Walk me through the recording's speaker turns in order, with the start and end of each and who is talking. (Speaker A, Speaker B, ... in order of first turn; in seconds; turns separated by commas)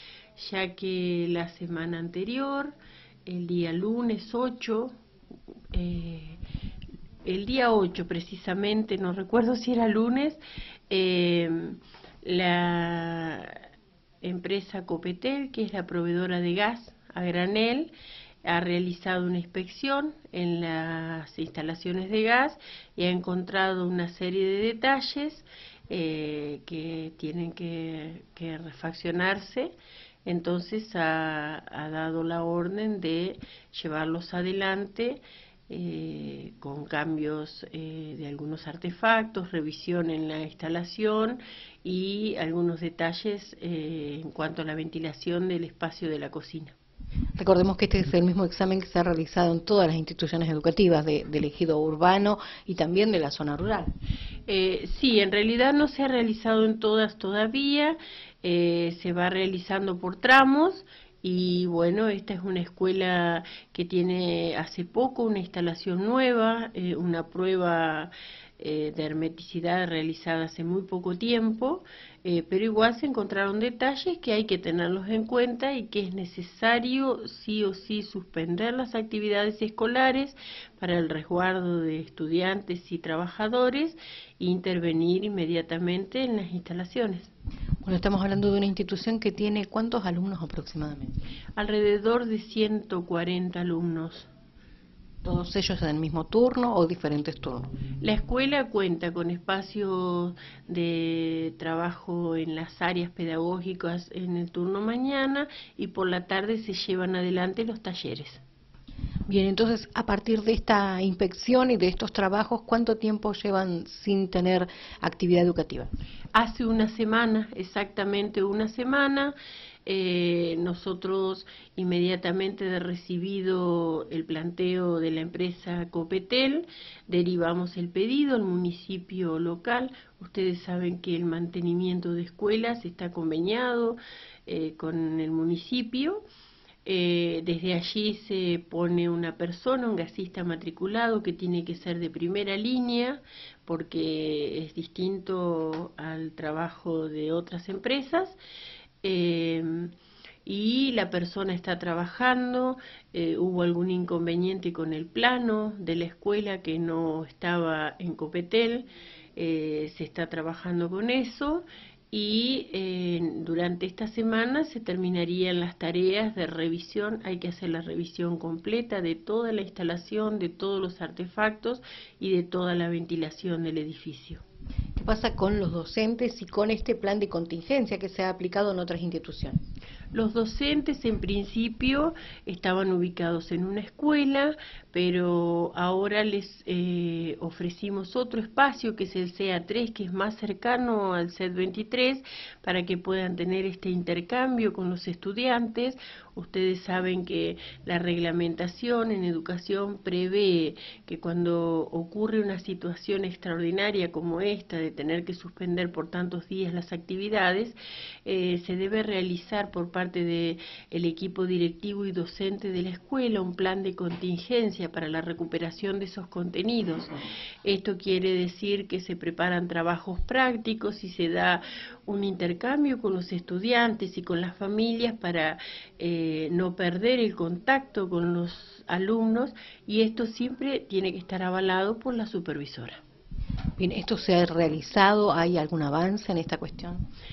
Speaker A: 0.4-4.9, Speaker A: 5.7-6.4, Speaker A: 7.2-13.6, Speaker A: 14.2-17.9, Speaker A: 18.4-29.7, Speaker A: 30.3-46.8, Speaker B: 47.4-53.9, Speaker A: 54.5-87.3, Speaker B: 87.8-91.2, Speaker A: 91.6-94.3, Speaker B: 95.2-97.7, Speaker A: 98.0-108.4, Speaker B: 109.3-115.9, Speaker A: 116.3-119.3, Speaker A: 119.9-136.2, Speaker A: 136.8-148.4, Speaker A: 149.0-149.9, Speaker A: 150.4-174.4, Speaker B: 175.0-179.6, Speaker A: 180.1-217.1, Speaker A: 217.6-233.0, Speaker B: 233.8-237.1